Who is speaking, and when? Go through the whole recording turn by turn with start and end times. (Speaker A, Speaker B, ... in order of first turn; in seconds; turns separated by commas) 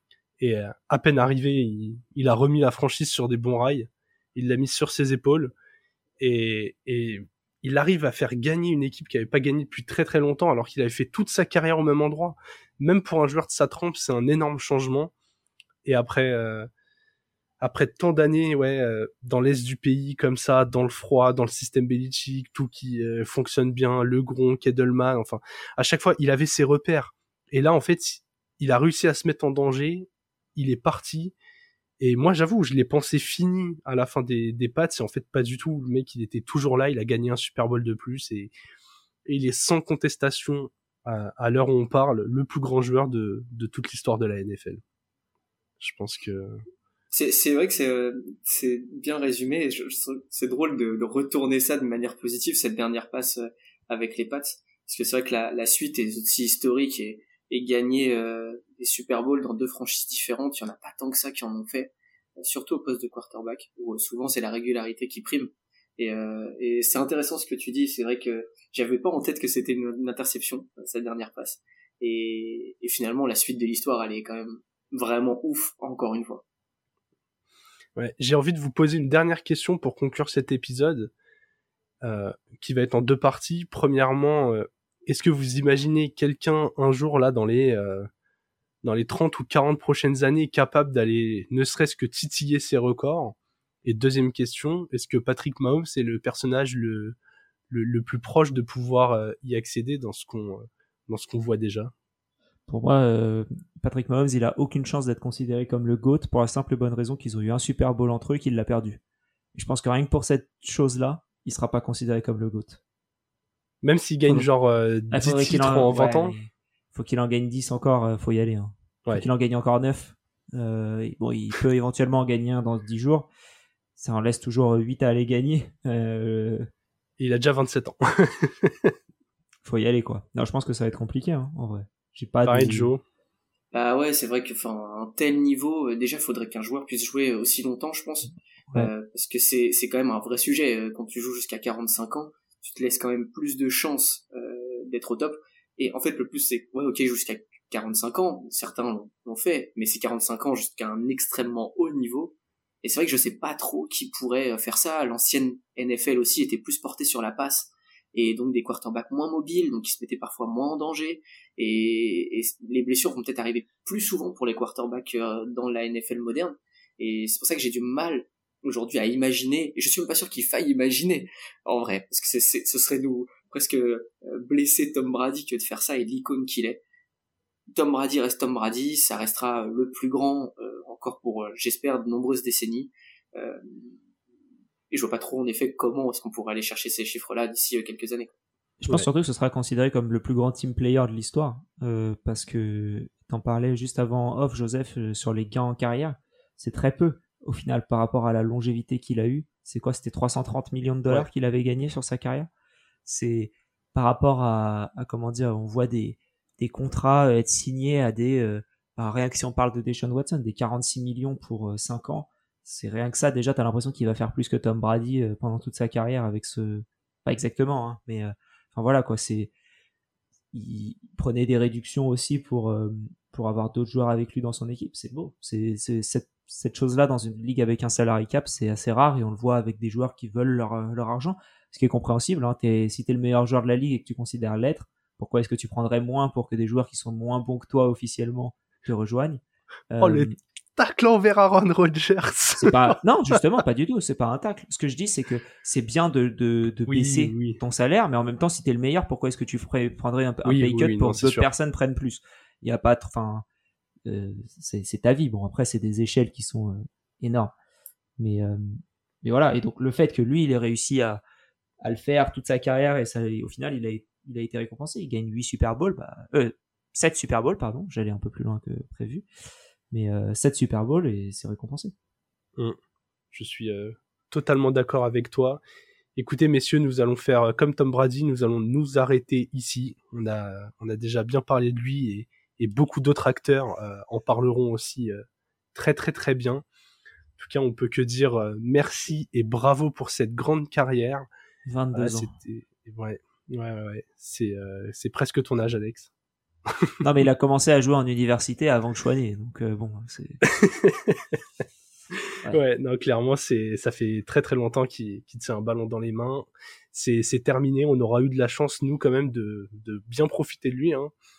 Speaker A: 0.4-5.5, Speaker A: 6.2-15.1, Speaker A: 15.8-16.7, Speaker A: 17.6-31.3, Speaker A: 32.0-38.5, Speaker A: 39.2-44.8, Speaker A: 45.8-46.6, Speaker B: 47.1-76.4, Speaker A: 78.0-81.1, Speaker A: 82.0-88.1, Speaker A: 88.8-97.2, Speaker A: 97.7-101.9, Speaker C: 102.7-109.0, Speaker C: 109.5-112.8, Speaker A: 113.8-116.4, Speaker C: 115.1-123.3, Speaker C: 124.0-126.7, Speaker A: 127.2-128.9, Speaker C: 129.6-132.9, Speaker A: 132.4-133.0, Speaker B: 133.7-176.8, Speaker B: 177.7-183.9, Speaker B: 184.9-188.3, Speaker C: 188.8-202.5, Speaker A: 188.8-189.1, Speaker C: 203.1-219.5, Speaker C: 220.5-240.3, Speaker A: 240.0-243.4, Speaker C: 242.6-253.4, Speaker A: 246.9-247.6, Speaker A: 250.4-251.5, Speaker C: 254.1-257.5, Speaker C: 258.2-261.2, Speaker C: 261.8-269.2, Speaker C: 269.9-271.9, Speaker A: 273.3-275.6, Speaker A: 276.1-285.2, Speaker A: 285.7-286.6, Speaker A: 287.4-291.2, Speaker C: 291.7-292.3, Speaker A: 291.9-296.1, Speaker C: 297.0-300.4, Speaker A: 300.6-301.1, Speaker A: 302.5-311.1